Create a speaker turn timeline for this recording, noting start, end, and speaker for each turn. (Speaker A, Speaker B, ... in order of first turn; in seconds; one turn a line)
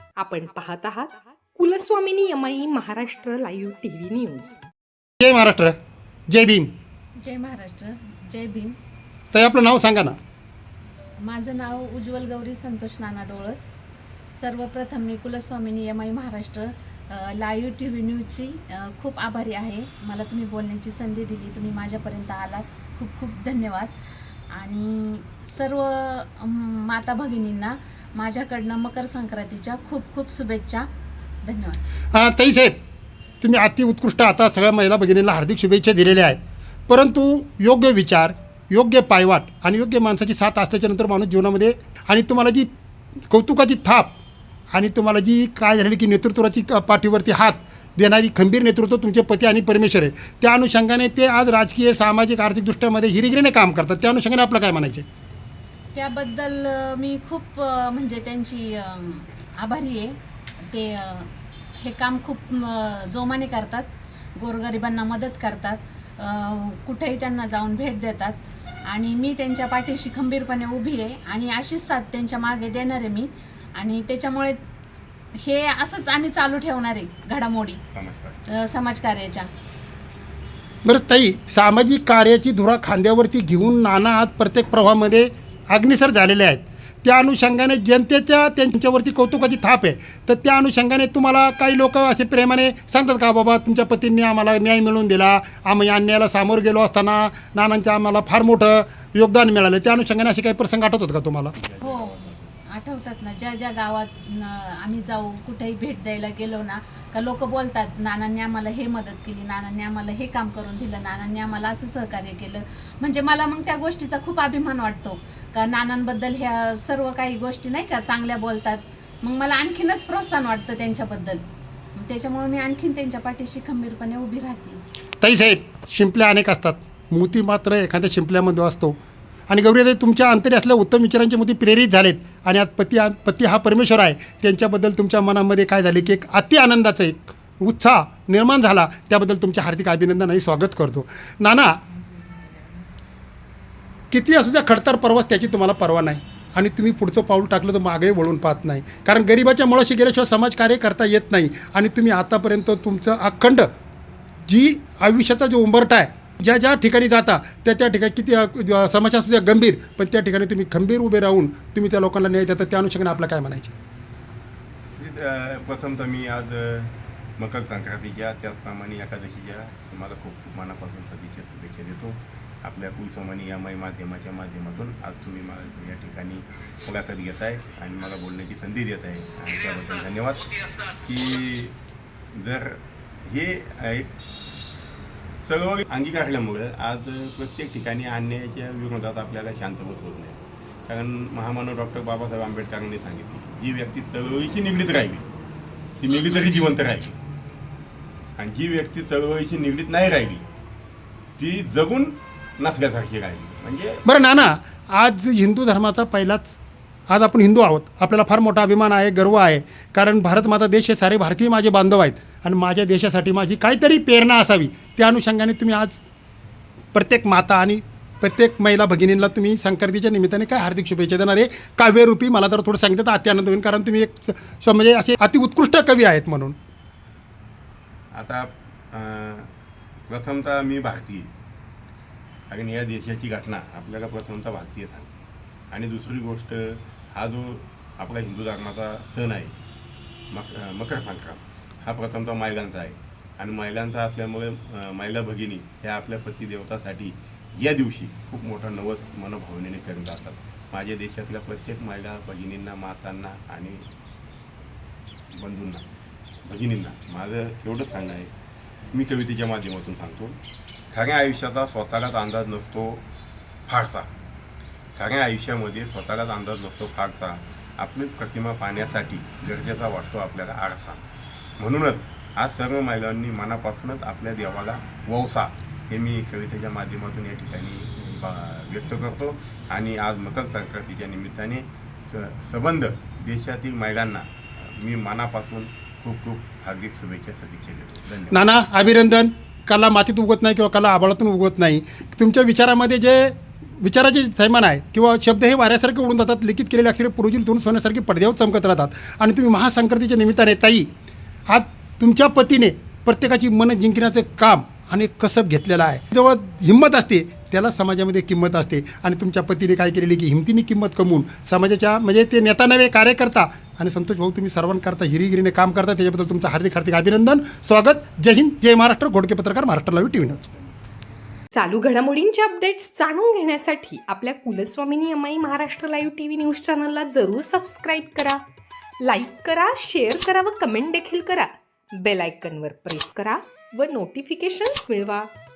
Speaker A: 0.2-4.6
Speaker B: 5.2-5.8
Speaker B: 6.3-6.7
Speaker C: 7.2-8.8
Speaker B: 9.3-10.2
Speaker C: 11.2-13.8
Speaker C: 14.3-23.9
Speaker C: 24.5-30.9
Speaker C: 31.4-31.8
Speaker B: 32.1-32.7
Speaker B: 33.4-42.7
Speaker B: 43.3-44.2
Speaker B: 44.7-55.0
Speaker C: 55.9-61.3
Speaker C: 61.8-74.6
Speaker C: 75.3-77.8
Speaker D: 77.9-78.4
Speaker C: 78.5-79.5
Speaker B: 80.8-101.5
Speaker D: 101.6-102.5
Speaker C: 101.8-121.4
Speaker C: 121.9-124.8
Speaker B: 125.2-129.0
Speaker B: 129.5-141.8
Speaker B: 144.1-153.7
Speaker B: 154.4-163.7
Speaker D: 165.0-181.8
Speaker D: 182.3-184.1
Speaker D: 185.4-195.2
Speaker D: 195.9-197.2
Speaker D: 198.4-200.4
Speaker D: 201.4-204.0
Speaker B: 204.0-206.6
Speaker B: 207.1-216.0
Speaker B: 216.9-226.6
Speaker D: 228.1-229.5
Speaker D: 230.1-231.3
Speaker D: 232.5-239.6
Speaker D: 240.3-253.9
Speaker D: 255.3-255.9
Speaker D: 256.4-258.3
Speaker D: 258.9-260.4
Speaker D: 260.9-263.0
Speaker D: 263.7-264.1
Speaker D: 264.9-271.0
Speaker D: 271.6-288.4
Speaker B: 288.3-300.9
Speaker B: 301.5-320.5
Speaker A: 321.5-328.4
Speaker A: 329.0-335.3